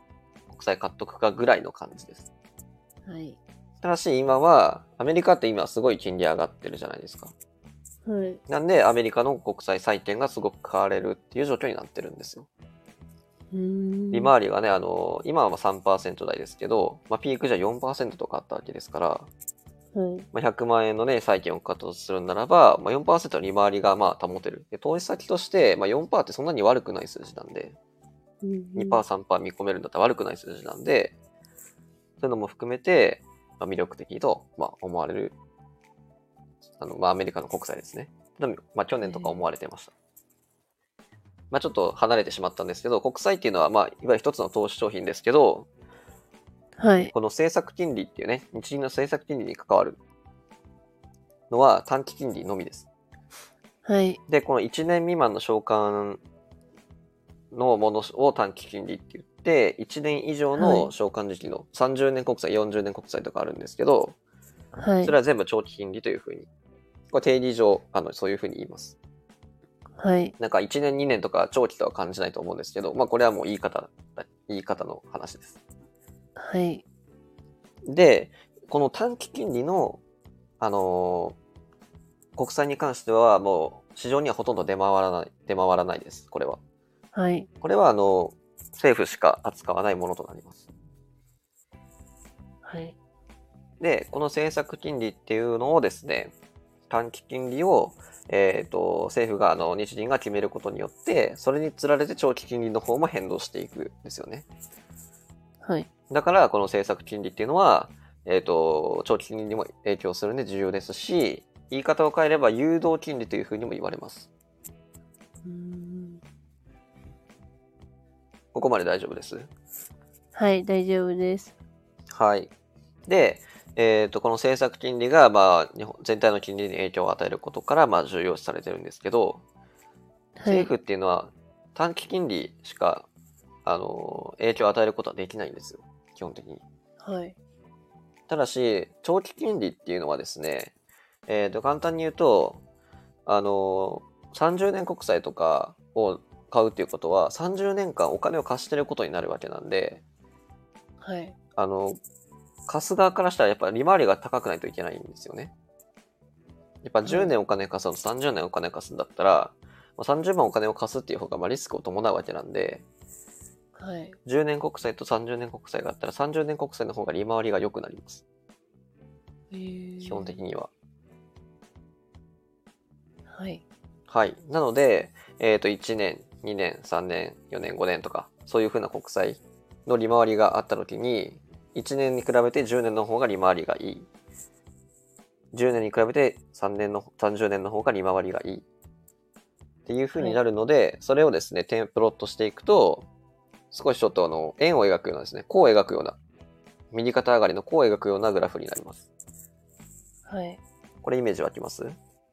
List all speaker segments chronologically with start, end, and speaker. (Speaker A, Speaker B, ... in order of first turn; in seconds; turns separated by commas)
Speaker A: 0.5-2.3, Speaker B: 3.1-3.4, Speaker A: 3.8-7.3, Speaker B: 8.1-8.4, Speaker A: 8.5-12.5, Speaker B: 13.5-14.3, Speaker A: 14.1-19.3, Speaker B: 19.9-20.3, Speaker A: 20.3-27.8, Speaker B: 28.4-29.0, Speaker A: 28.8-31.1, Speaker A: 32.2-35.4, Speaker A: 36.8-39.9, Speaker B: 39.0-39.4, Speaker A: 41.5-45.7, Speaker B: 46.8-47.1, Speaker A: 47.1-50.0, Speaker A: 51.5-52.9, Speaker B: 53.8-54.2, Speaker A: 54.3-56.2, Speaker A: 57.5-64.2, Speaker B: 60.6-60.9, Speaker B: 64.8-65.2, Speaker A: 65.0-66.5, Speaker A: 67.1-69.0, Speaker B: 70.0-70.3, Speaker A: 70.4-75.6, Speaker B: 76.4-76.8, Speaker A: 77.9-80.0, Speaker A: 80.6-81.4, Speaker A: 82.4-86.6, Speaker B: 87.1-87.5, Speaker A: 87.6-90.7, Speaker B: 92.6-93.0, Speaker A: 93.8-96.3, Speaker A: 96.9-104.5, Speaker B: 105.6-105.9, Speaker A: 106.1-114.3, Speaker B: 115.5-116.2, Speaker A: 118.5-119.5, Speaker B: 120.3-121.5, Speaker A: 122.1-122.5, Speaker A: 123.1-129.4, Speaker B: 130.4-130.7, Speaker A: 130.5-133.1, Speaker A: 133.7-136.6, Speaker B: 137.0-137.4, Speaker A: 138.3-140.7, Speaker A: 141.3-142.6, Speaker A: 143.3-150.0, Speaker B: 151.0-151.4, Speaker A: 151.6-152.0, Speaker A: 152.7-155.5, Speaker A: 156.8-162.8, Speaker B: 157.1-157.3, Speaker B: 163.8-164.2, Speaker A: 164.2-168.2, Speaker B: 169.5-170.4, Speaker A: 170.0-170.7, Speaker B: 173.3-173.6, Speaker A: 174.1-184.1, Speaker A: 185.5-188.7, Speaker A: 189.9-193.1, Speaker A: 193.7-196.2, Speaker A: 196.9-199.1, Speaker B: 200.3-200.6, Speaker A: 201.0-202.0